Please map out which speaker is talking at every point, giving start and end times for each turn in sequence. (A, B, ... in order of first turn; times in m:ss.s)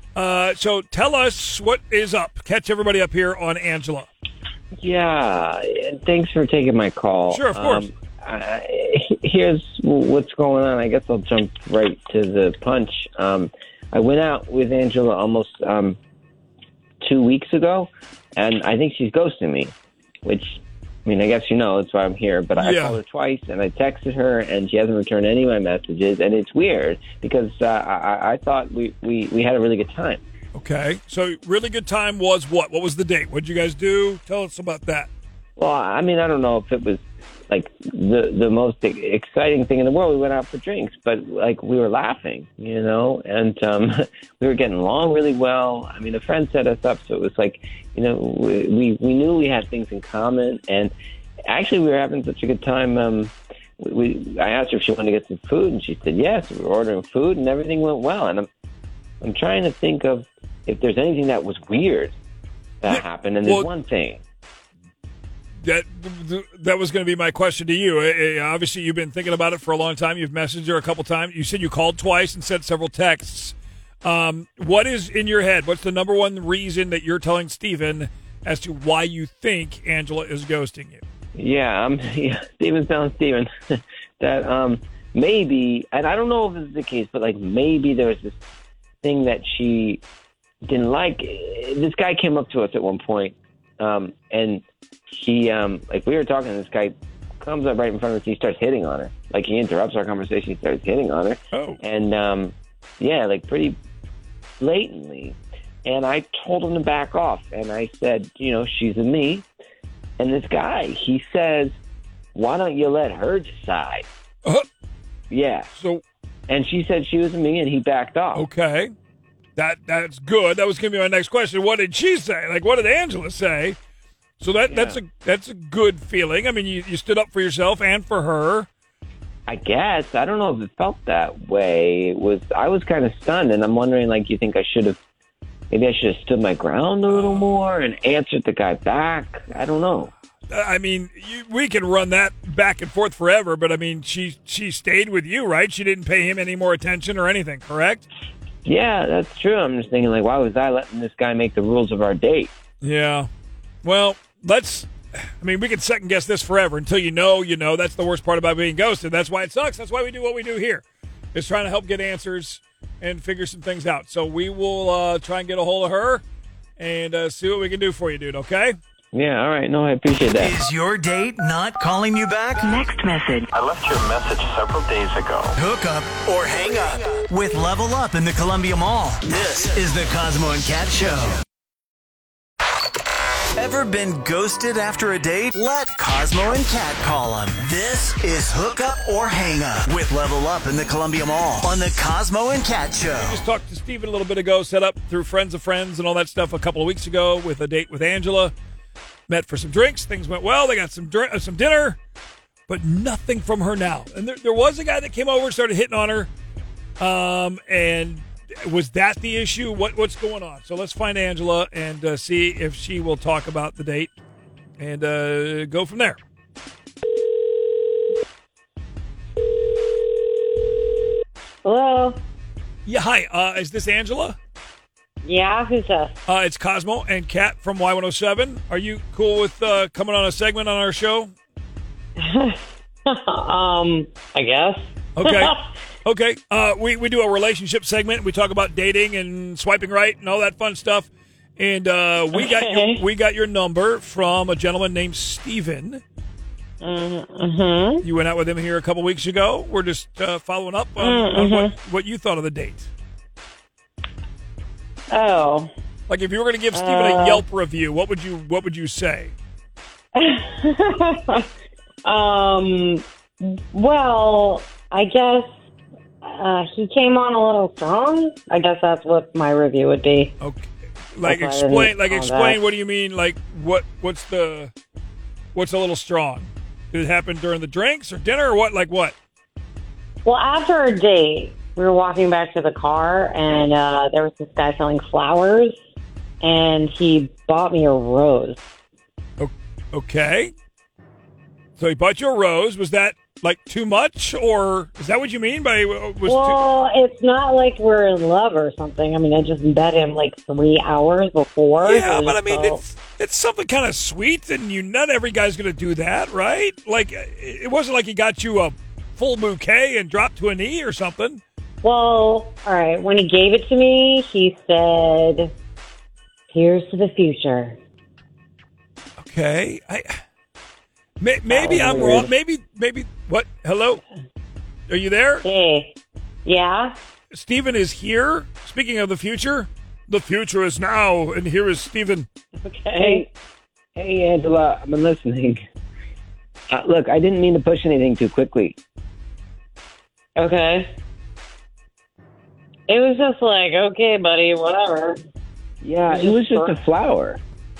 0:00.1-0:04.1 A
0:04.8-0:16.0 B
0:07.3-0:07.8 A
0:17.0-0:19.7 B
0:20.2-0:30.2 B
0:22.6-0:23.0 A
0:30.5-0:35.1 A
0:35.6-0:50.9 B
0:51.5-0:58.5 B
0:59.2-1:02.2 B
1:02.8-1:04.2 B
1:02.9-1:03.7 A
1:05.6-1:21.0 A
1:21.3-1:28.4 B
1:29.0-1:30.0 B
1:30.6-1:43.8 B
1:41.5-1:41.8 A
1:44.6-1:49.4 B
1:50.2-1:51.7 B
1:52.3-1:54.0 B
1:55.3-1:55.7 B
1:55.7-1:56.0 A
1:56.5-1:58.5 B
1:58.3-1:58.9 A
1:59.6-2:03.8 A
2:04.4-2:08.7 A
2:04.7-2:05.0 B
2:09.5-2:15.0 B
2:15.7-2:20.1 B
2:17.1-2:17.6 A
2:20.5-2:28.0 A
2:28.6-2:32.5 B
2:32.8-2:33.3 A
2:33.8-2:46.2 A
2:46.8-2:48.8 A
2:49.1-2:50.5 B
2:50.3-2:52.8 C
2:52.9-2:55.5 D
2:55.6-3:01.4 C
3:03.6-3:13.4 C
3:13.2-3:18.5 A
3:19.3-3:22.0 A
3:22.7-3:26.3 A
3:27.0-3:34.1 A
3:34.8-3:36.2 A
3:41.6-3:42.2 E
3:42.8-3:44.4 A
3:45.2-3:46.2 E
3:46.3-3:51.3 A
3:52.2-3:55.6 E
3:55.2-4:06.0 A
4:02.3-4:03.0 E
4:06.8-4:08.0 E
4:08.0-4:12.9 A
4:11.0-4:11.7 E
4:15.1-4:15.7 E
4:16.1-4:19.3 A
4:16.7-4:17.4 E
4:20.1-4:21.4 E
4:22.0-4:25.5 E
4:26.2-4:30.4 E
4:30.4-4:34.7 A
4:31.2-4:32.6 E
4:35.5-4:39.1 A
4:40.2-4:45.8 E
4:46.4-4:48.6 E
4:49.4-4:50.5 A
4:51.8-4:56.6 A
4:56.2-5:02.8 E
5:01.8-5:11.4 A
5:11.8-5:15.5 E
5:16.5-5:17.8 E
5:19.2-5:20.2 A
5:21.2-5:24.0 A
5:21.5-5:22.3 E
5:24.9-5:25.4 A
5:25.4-5:26.9 E
5:27.3-5:32.3 A
5:32.6-5:33.3 E
5:33.0-5:33.3 B
5:34.0-5:35.6 B
5:36.7-5:38.8 B
5:40.4-5:40.9 E
5:42.9-5:45.2 E
5:45.8-5:47.4 B
5:46.1-5:46.8 E